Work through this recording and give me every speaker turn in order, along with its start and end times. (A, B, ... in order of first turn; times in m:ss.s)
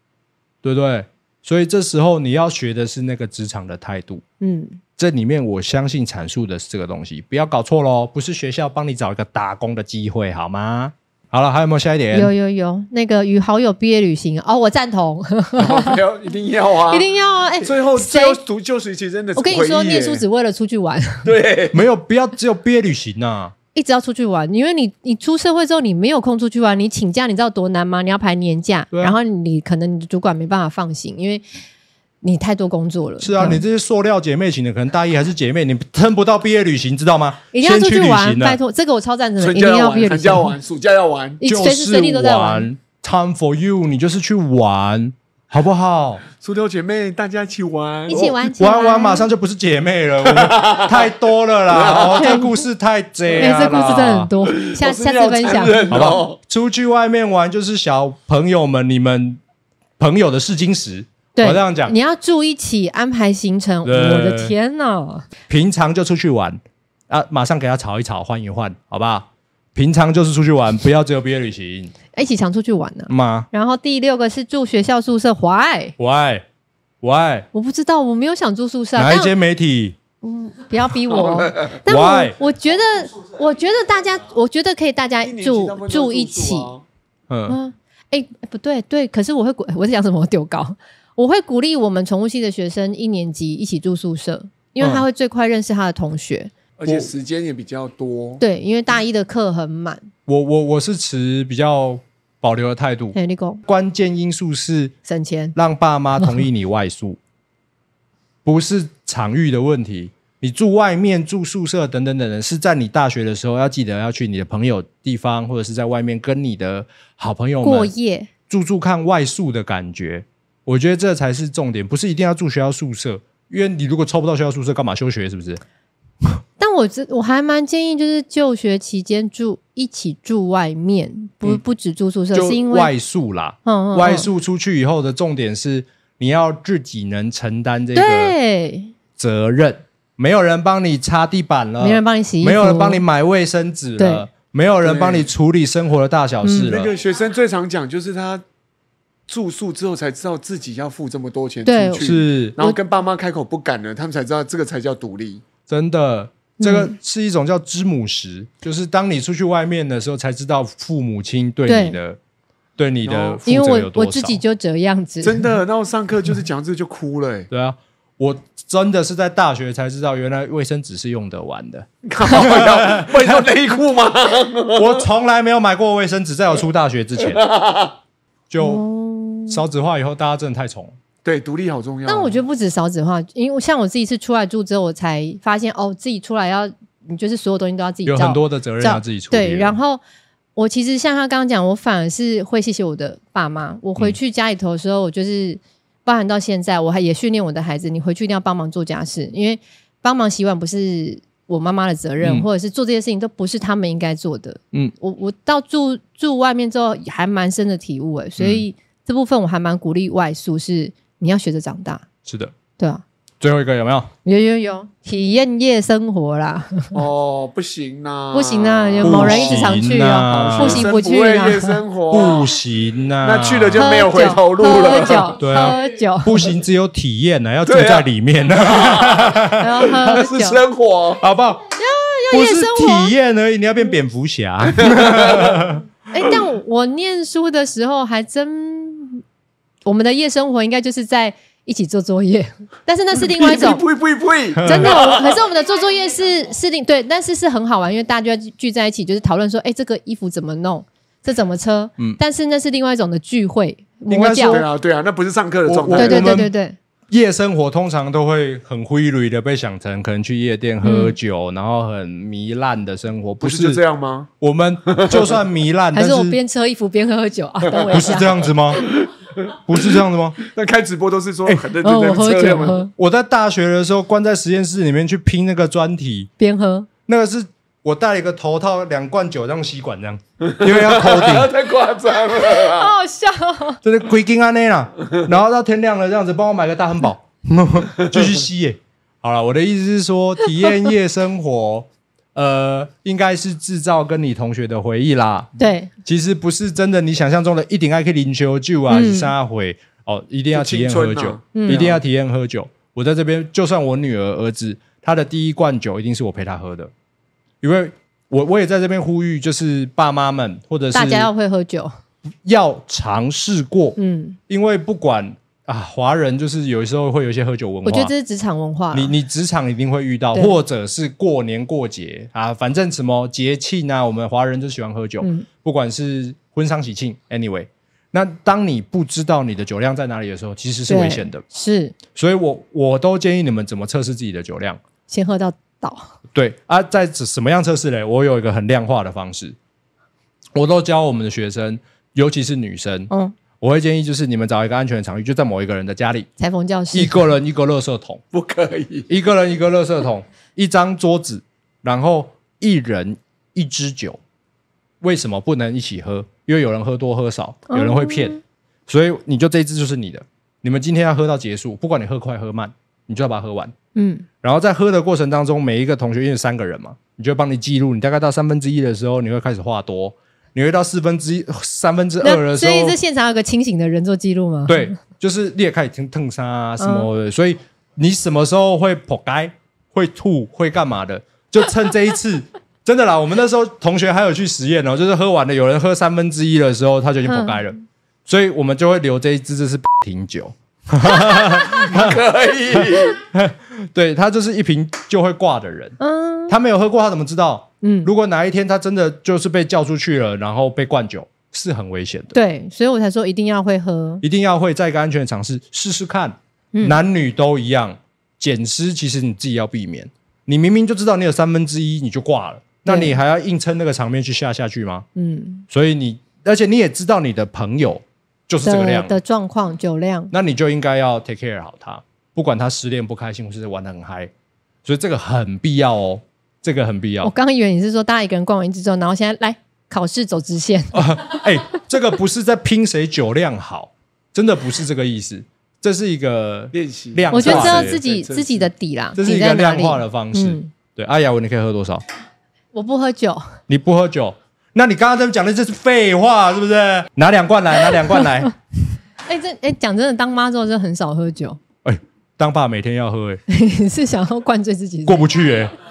0:00.6-0:04.2 A
0:04.4-0:04.8 B
0:05.0-0:12.3 A
0:12.1-0:16.0 B
0:15.6-0:17.1 C
0:16.9-0:18.4 B
0:17.6-0:20.2 C
0:19.4-0:21.3 B
0:21.2-0:21.8 C
0:21.7-0:23.5 A
0:23.8-0:31.4 B
0:32.2-0:33.6 B
0:33.2-0:38.6 A
0:37.5-0:40.6 B
0:39.4-0:41.4 C
0:41.4-0:42.7 B
0:41.4-0:46.2 A
0:46.4-0:48.3 C
0:48.1-0:49.3 B
0:48.1-0:54.3 A
0:50.3-0:51.1 C
0:51.7-0:52.2 C
0:52.2-0:52.6 B
0:53.3-0:56.1 B
0:54.5-0:56.4 C
0:55.9-0:59.4 A
1:00.0-1:02.0 A
1:01.4-1:05.3 B
1:03.8-1:04.6 A
1:05.5-1:11.9 A
1:12.1-1:16.0 B
1:13.1-1:13.5 A
1:16.0-1:16.4 A
1:17.0-1:17.5 A
1:17.5-1:19.3 B
1:19.0-1:20.0 A
1:20.2-1:26.7 B
1:21.1-1:21.8 C
1:21.9-1:22.4 A
1:25.2-1:26.8 C
1:27.3-1:27.6 A
1:27.5-1:36.5 B
1:36.8-1:38.4 C
1:38.4-1:40.1 B
1:40.3-1:44.9 A
1:43.1-1:43.6 B
1:45.1-1:45.6 B
1:45.6-1:47.2 A
1:48.4-1:57.9 A
1:57.6-1:58.3 B
1:58.5-2:05.6 A
2:06.6-2:12.9 B
2:12.3-2:18.4 A
2:13.6-2:14.3 B
2:18.0-2:18.9 B
2:19.2-2:26.9 A
2:21.8-2:23.0 B
2:24.0-2:24.3 B
2:24.8-2:25.3 C
2:26.4-2:26.7 B
2:26.6-2:28.4 C
2:29.3-2:35.4 C
2:31.6-2:32.8 B
2:32.0-2:32.6 A
2:35.7-2:42.2 A
2:36.6-2:37.0 B
2:41.7-2:42.0 B
2:42.8-2:44.4 A
2:43.0-2:43.4 C
2:43.4-2:45.5 B
2:45.2-2:47.5 C
2:47.5-2:53.5 A
2:52.0-2:55.0 C
2:54.7-2:57.4 A
2:57.2-2:58.0 C
2:58.5-2:58.8 A
2:58.6-2:59.6 B
2:59.5-3:01.0 A
3:01.2-3:02.4 C
3:02.1-3:10.0 B
3:08.0-3:09.8 A
3:10.6-3:32.0 B
3:22.2-3:22.5 A
3:28.4-3:28.6 A
3:32.3-3:32.5 A
3:32.8-3:33.0 B
3:33.4-3:34.1 A
3:34.2-3:37.0 B
3:36.9-3:42.5 C
3:38.3-3:41.8 B
3:39.0-3:40.9 A
3:42.1-3:44.0 A
3:43.2-3:45.4 C
3:43.8-3:46.5 B
3:45.4-3:49.8 A
3:47.7-3:51.2 C
3:49.5-3:50.6 B
3:51.2-3:51.7 A
3:51.8-3:53.1 B
3:52.3-3:55.8 A
3:54.8-3:55.6 C
3:56.1-3:59.2 B
3:59.8-4:03.9 B
4:03.2-4:05.4 C
4:04.6-4:05.1 A
4:04.6-4:14.6 B
4:14.1-4:14.6 A
4:14.4-4:16.3 C
4:15.7-4:16.5 A
4:15.9-4:16.8 B
4:17.1-4:23.8 A
4:20.8-4:21.2 B
4:23.4-4:24.3 C
4:24.4-4:26.4 A
4:24.9-4:25.4 C
4:25.9-4:28.4 B
4:27.7-4:28.1 C
4:27.9-4:28.9 A
4:28.7-4:32.9 C
4:29.5-4:30.4 A
4:31.8-4:32.9 B
4:33.0-4:36.3 A
4:36.4-4:36.9 B
4:37.1-4:41.5 A
4:40.5-4:42.9 C
4:42.3-4:43.8 B
4:43.8-4:55.5 A
4:55.6-4:55.9 B
4:56.0-5:06.9 A
4:58.9-4:59.3 B
5:00.5-5:02.0 C
5:01.6-5:01.9 B
5:07.6-5:11.3 A
5:10.9-5:11.9 B
5:12.4-5:18.1 A
5:14.0-5:14.4 B
5:17.8-5:19.1 B
5:18.9-5:31.4 A
5:25.2-5:25.5 B
5:30.9-5:32.0 B
5:32.1-5:34.8 A
5:35.1-5:36.1 B
5:36.3-5:39.6 A
5:40.6-5:46.3 A
5:43.1-5:43.4 B
5:46.4-5:47.2 B
5:46.9-5:48.2 A
5:48.3-5:49.1 C
5:49.1-5:54.2 A
5:55.0-5:58.4 A
5:57.7-5:58.4 B
5:58.9-6:03.7 A
6:04.0-6:04.3 B
6:04.4-6:13.0 A
6:12.2-6:15.0 B
6:14.7-6:36.0 A
6:16.8-6:17.1 B
6:27.2-6:27.7 B
6:31.6-6:33.2 C
6:36.0-6:36.6 B
6:36.5-6:42.3 A
6:37.8-6:38.1 B
6:42.3-6:44.2 B
6:44.2-6:55.1 A
6:52.8-6:53.2 B
6:55.2-6:55.6 B
6:55.7-6:59.2 A
6:58.6-7:00.3 B
7:00.3-7:04.3 A
7:04.8-7:07.3 A
7:07.2-7:11.4 B
7:10.9-7:18.0 A
7:16.7-7:18.7 C
7:17.3-7:20.7 B
7:19.2-7:22.0 A
7:22.7-7:23.5 B
7:23.7-7:28.5 A
7:29.2-7:31.6 B
7:31.8-7:33.4 A
7:33.5-7:35.3 B
7:35.1-7:35.7 A